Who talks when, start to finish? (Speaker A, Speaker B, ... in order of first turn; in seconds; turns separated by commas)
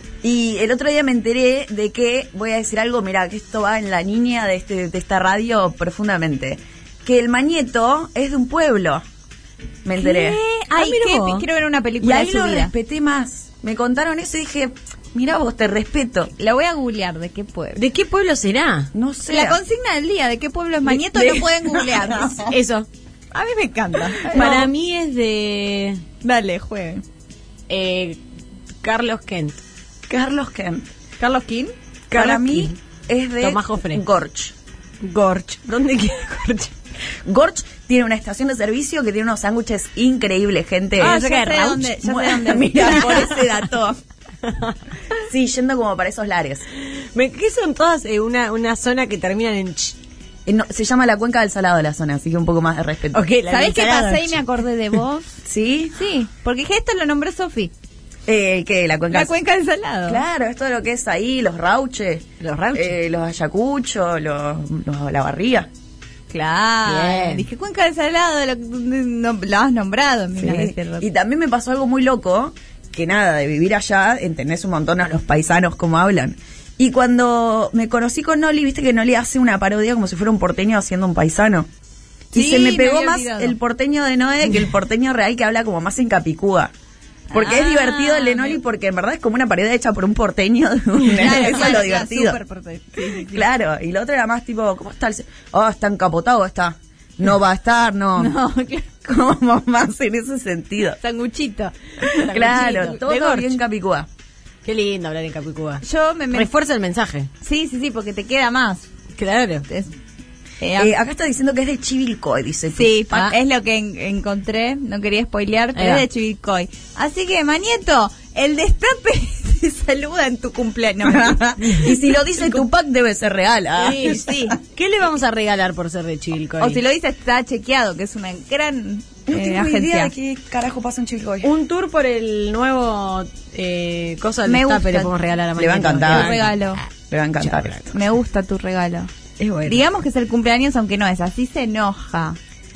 Speaker A: 0.2-9.0, Speaker A: 9.8-10.4, Speaker B: 10.0-12.7, Speaker C: 10.7-11.4, Speaker A: 12.0-16.3, Speaker B: 16.4-17.8, Speaker C: 17.8-18.9, Speaker A: 18.9-19.6, Speaker B: 19.3-22.4, Speaker A: 20.9-22.5, Speaker C: 22.5-22.9, Speaker B: 23.3-24.5, Speaker C: 24.2-26.0, Speaker A: 24.3-24.7, Speaker B: 26.2-27.0, Speaker C: 27.7-28.2, Speaker C: 28.8-29.6, Speaker A: 30.1-30.9, Speaker B: 31.2-31.7, Speaker C: 32.1-32.8, Speaker A: 32.1-34.5, Speaker C: 33.4-34.0, Speaker C: 35.0-36.7, Speaker A: 37.2-44.0, Speaker B: 41.0-43.3, Speaker C: 41.0-41.9, Speaker A: 45.3-46.6, Speaker C: 47.1-50.0, Speaker A: 50.5-53.2, Speaker C: 53.1-54.4, Speaker B: 53.5-55.4, Speaker A: 55.4-55.9, Speaker B: 55.9-57.7, Speaker A: 58.3-59.3, Speaker B: 59.1-60.2, Speaker A: 60.0-65.7, Speaker C: 62.4-62.9, Speaker B: 66.3-71.0, Speaker C: 66.8-67.4, Speaker A: 70.4-81.7, Speaker A: 82.3-86.7, Speaker B: 82.3-83.5, Speaker B: 87.3-88.6, Speaker A: 87.3-92.4, Speaker B: 91.1-93.5, Speaker A: 93.2-98.3, Speaker B: 98.2-98.9, Speaker A: 99.0-101.0, Speaker B: 101.0-103.0, Speaker C: 102.2-103.6, Speaker A: 102.3-104.1, Speaker C: 104.6-107.3, Speaker B: 105.8-106.5, Speaker B: 107.4-108.9, Speaker C: 109.2-109.6, Speaker B: 110.6-110.9, Speaker A: 110.8-113.2, Speaker B: 112.7-121.8, Speaker C: 115.8-116.0, Speaker A: 121.0-124.5, Speaker C: 123.8-126.8, Speaker B: 124.0-124.5, Speaker B: 126.6-130.1, Speaker A: 129.3-131.5, Speaker C: 131.4-136.8, Speaker B: 134.4-135.1, Speaker A: 135.6-136.4, Speaker B: 136.1-136.8, Speaker A: 137.1-137.9, Speaker C: 137.4-137.8, Speaker B: 137.9-139.1, Speaker C: 139.4-139.8, Speaker B: 139.7-142.4